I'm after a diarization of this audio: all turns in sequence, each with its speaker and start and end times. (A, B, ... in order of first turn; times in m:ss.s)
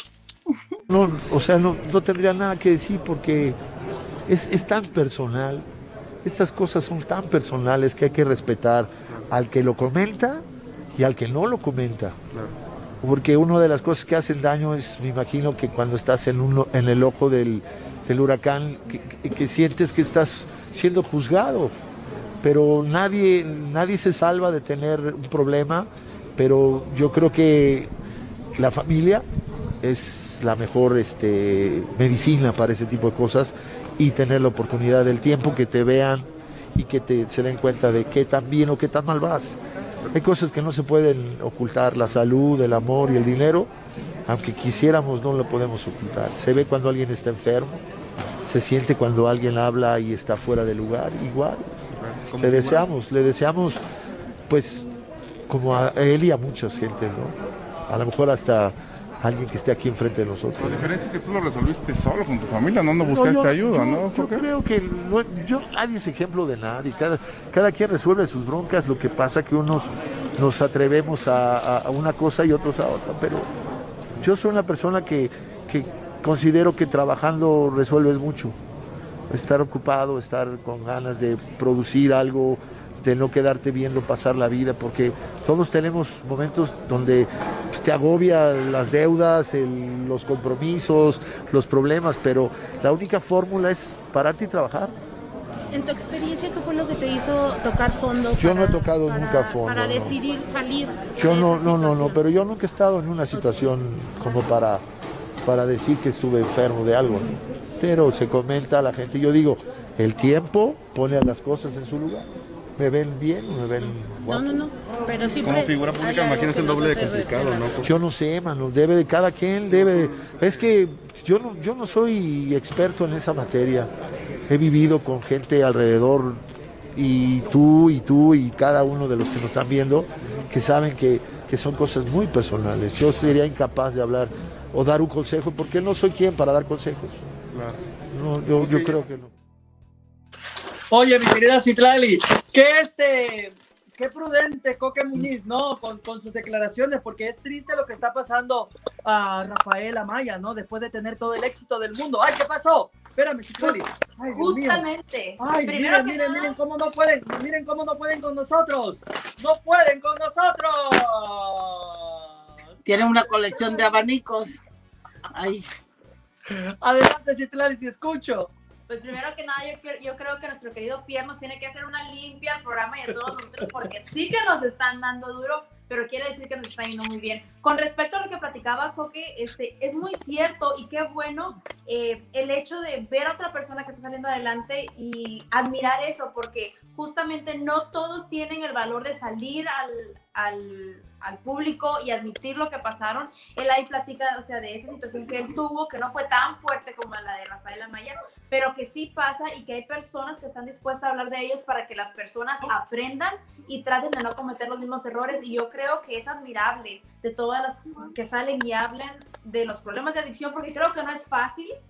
0:00.9-0:03.6 A
0:04.3-0:05.7 A
0:06.2-0:12.2 A
0:13.0-0:21.7 A
0:22.4-0:27.9 A
0:28.6-0:29.2 A
0:29.8-0:39.6 A
0:40.1-0:43.7 A
0:44.3-0:47.8 A
0:48.4-0:51.7 A
0:52.0-0:52.7 B
0:52.3-0:53.8 A
0:54.5-0:54.8 A
0:55.5-0:57.4 A
0:57.9-1:00.9 A
1:00.6-1:04.4 B
1:03.0-1:13.5 A
1:14.2-1:18.6 A
1:19.3-1:34.9 A
1:35.7-1:42.2 C
1:38.3-1:40.2 A
1:41.2-1:44.8 A
1:45.4-1:54.6 A
1:53.8-1:57.8 C
1:55.4-1:57.9 B
1:57.8-2:03.9 A
2:04.5-2:06.4 A
2:06.9-2:17.2 A
2:17.5-2:17.8 B
2:18.1-2:19.3 A
2:20.9-2:34.8 D
2:34.3-2:36.5 E
2:35.4-2:42.8 D
2:42.8-2:44.6 F
2:45.2-2:45.7 F
2:46.5-2:48.5 D
2:48.9-3:31.7 E